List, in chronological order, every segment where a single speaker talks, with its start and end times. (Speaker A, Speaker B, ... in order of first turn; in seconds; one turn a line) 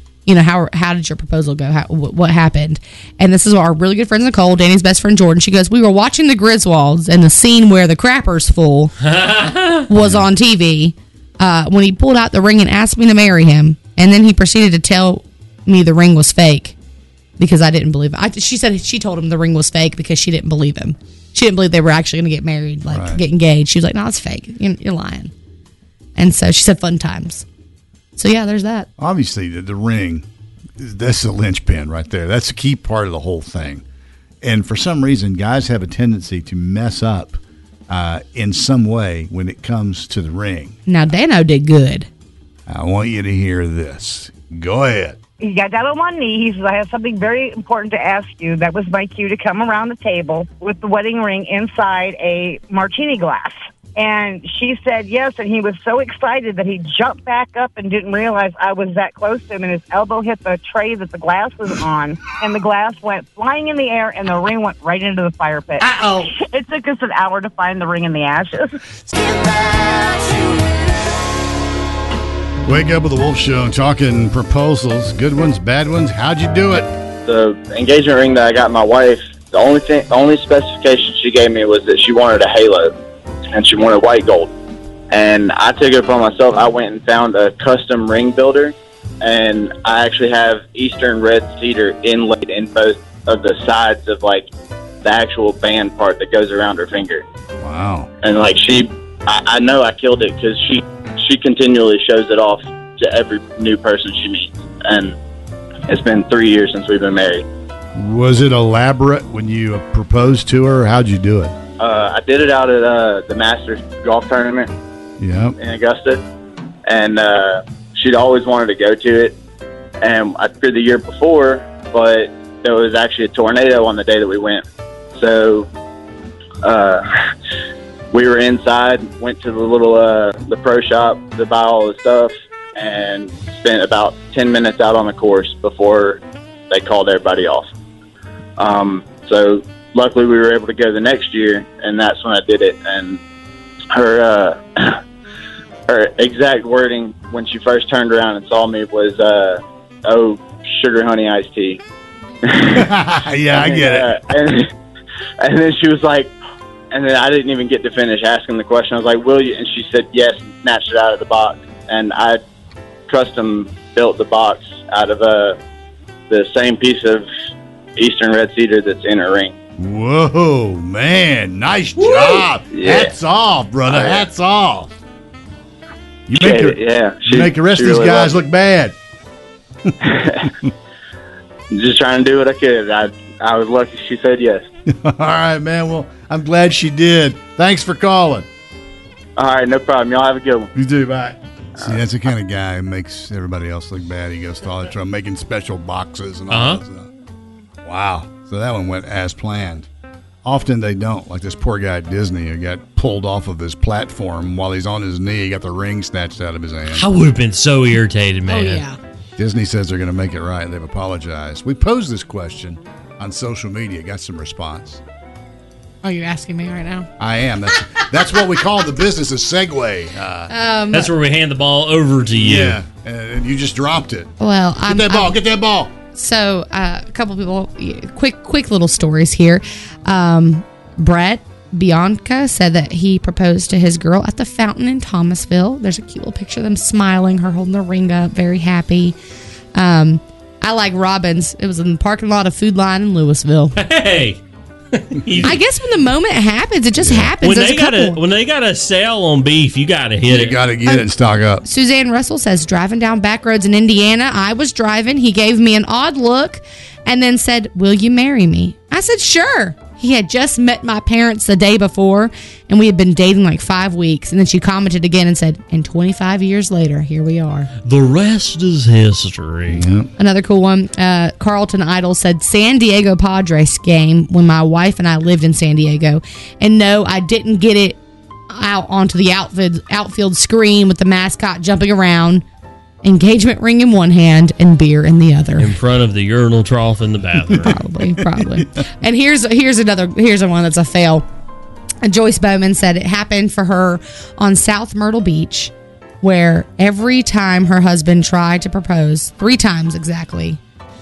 Speaker A: 0.3-8.9
Speaker B: 9.0-9.9
Speaker A: 9.9-16.8
Speaker C: 10.0-10.3
Speaker A: 17.4-25.3
Speaker C: 22.9-23.2
Speaker A: 26.2-27.4
Speaker A: 28.2-28.9
Speaker C: 29.0-30.3
Speaker C: 30.8-33.8
Speaker C: 34.4-40.8
Speaker A: 40.9-42.1
Speaker C: 42.7-45.2
Speaker D: 45.4-68.8
Speaker C: 65.8-66.3
Speaker C: 72.7-76.9
Speaker E: 77.3-82.9
Speaker E: 83.5-84.5
Speaker E: 85.1-94.5
Speaker E: 95.0-97.2
Speaker C: 97.6-98.1
Speaker E: 98.2-105.2
Speaker E: 105.9-107.5
Speaker C: 107.9-111.5
Speaker E: 111.8-114.7
Speaker C: 115.2-115.6
Speaker E: 115.6-116.2
Speaker E: 116.9-119.4
Speaker E: 120.0-125.7
Speaker E: 126.6-127.1
Speaker E: 128.1-137.7
Speaker E: 138.6-143.2
Speaker E: 143.9-145.0
Speaker E: 145.9-151.8
Speaker E: 152.5-152.8
Speaker C: 152.7-154.2
Speaker E: 153.5-154.7
Speaker E: 155.4-156.3
Speaker E: 156.9-162.4
Speaker E: 163.1-165.6
Speaker E: 166.3-167.3
Speaker E: 168.0-169.5
Speaker C: 169.8-174.9
Speaker E: 172.0-173.1
Speaker E: 173.9-174.2
Speaker C: 176.3-179.0
Speaker E: 176.4-178.4
Speaker E: 180.0-180.5
Speaker E: 181.7-184.7
Speaker C: 184.9-188.5
Speaker E: 189.4-190.7
Speaker C: 190.8-197.1
Speaker B: 196.5-196.8
Speaker C: 197.8-199.9
Speaker C: 200.4-207.1
Speaker B: 206.9-208.8
Speaker A: 208.5-209.0
Speaker C: 209.4-215.0
Speaker A: 216.0-217.1
Speaker C: 217.2-220.5
Speaker A: 220.5-221.1
Speaker B: 220.9-222.8
Speaker C: 222.3-224.3
Speaker A: 224.4-225.4
Speaker C: 224.9-225.9
Speaker A: 226.2-239.2
Speaker A: 239.7-243.8
Speaker B: 243.8-244.4
Speaker B: 244.9-245.6
Speaker A: 245.4-248.2
Speaker C: 247.0-247.3
Speaker B: 247.4-250.6
Speaker C: 250.3-251.6
Speaker A: 251.6-267.7
Speaker B: 267.9-269.9
Speaker C: 269.7-270.1
Speaker A: 270.2-278.0
Speaker A: 278.5-282.4
Speaker A: 283.0-285.7
Speaker B: 285.6-287.8
Speaker A: 287.6-291.2
Speaker C: 288.2-288.7
Speaker A: 292.0-300.6